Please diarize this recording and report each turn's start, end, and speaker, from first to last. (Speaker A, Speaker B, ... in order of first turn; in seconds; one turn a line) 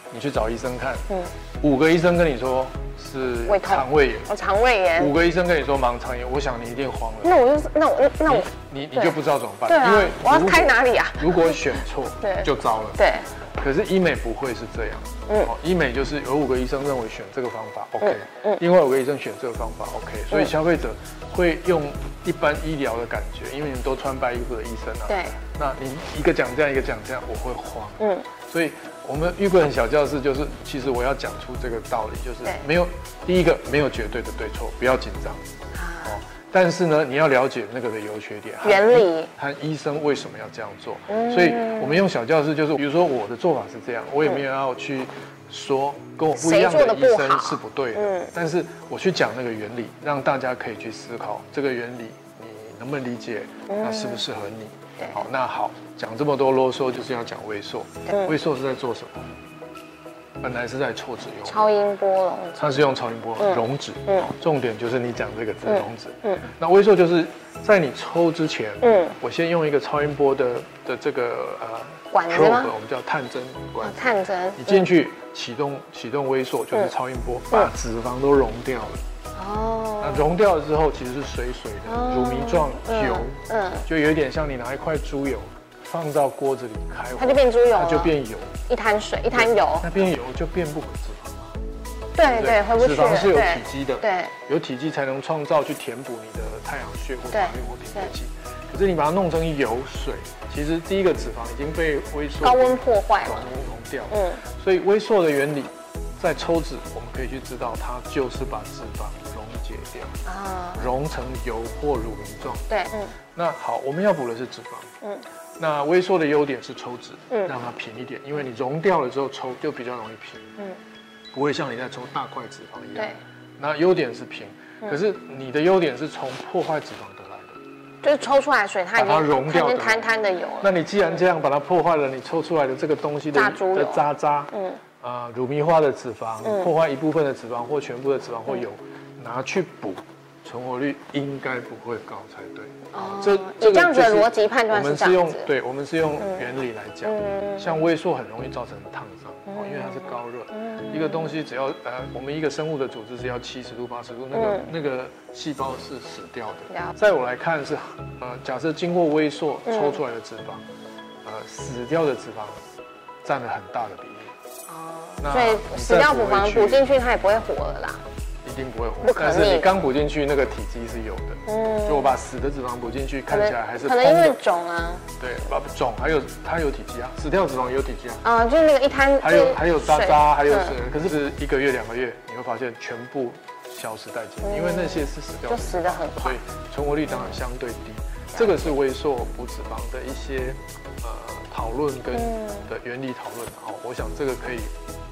Speaker A: 0.1-1.0
Speaker A: 1.6-4.3
Speaker B: 3.5-5.1
Speaker A: 5.0-7.3
Speaker B: 7.2-13.3
Speaker A: 8.2-13.0
Speaker A: 13.6-35.4
Speaker B: 15.3-15.5
Speaker B: 18.0-18.6
Speaker B: 25.1-25.4
Speaker B: 28.0-28.2
Speaker B: 35.7-36.2
Speaker A: 36.0-59.3
Speaker B: 38.6-39.3
Speaker B: 41.1-42.0
Speaker B: 46.3-48.3
Speaker B: 53.7-54.2
Speaker B: 55.0-55.2
Speaker A: 60.4-61.7
Speaker B: 61.4-64.3
Speaker A: 62.6-79.0
Speaker B: 65.7-66.5
Speaker B: 68.8-69.2
Speaker B: 72.1-72.7
Speaker B: 73.8-74.9
Speaker B: 79.3-80.3
Speaker A: 80.0-88.5
Speaker B: 81.8-83.9
Speaker B: 87.2-88.1
Speaker B: 88.7-90.0
Speaker A: 89.3-91.6
Speaker B: 92.1-94.3
Speaker A: 92.2-110.2
Speaker B: 97.3-98.1
Speaker B: 102.4-103.5
Speaker B: 104.1-104.4
Speaker B: 110.2-110.9
Speaker A: 110.8-112.7
Speaker B: 112.7-113.1
Speaker A: 113.3-114.9
Speaker A: 115.6-120.5
Speaker A: 121.3-127.6
Speaker B: 128.0-130.8
Speaker A: 128.9-160.6
Speaker B: 133.3-134.8
Speaker B: 136.4-136.7
Speaker B: 142.9-145.5
Speaker B: 146.2-146.5
Speaker B: 147.0-147.8
Speaker B: 149.5-151.4
Speaker B: 154.3-154.7
Speaker B: 159.7-160.0
Speaker A: 161.2-162.6
Speaker A: 163.2-164.3
Speaker B: 164.7-168.0
Speaker A: 165.2-166.9
Speaker A: 168.4-174.4
Speaker B: 169.0-169.7
Speaker B: 171.5-172.2
Speaker B: 173.3-175.0
Speaker A: 175.2-178.2
Speaker B: 178.2-180.8
Speaker A: 179.2-194.7
Speaker B: 184.4-186.4
Speaker B: 187.1-187.4
Speaker B: 188.3-188.8
Speaker B: 192.1-192.7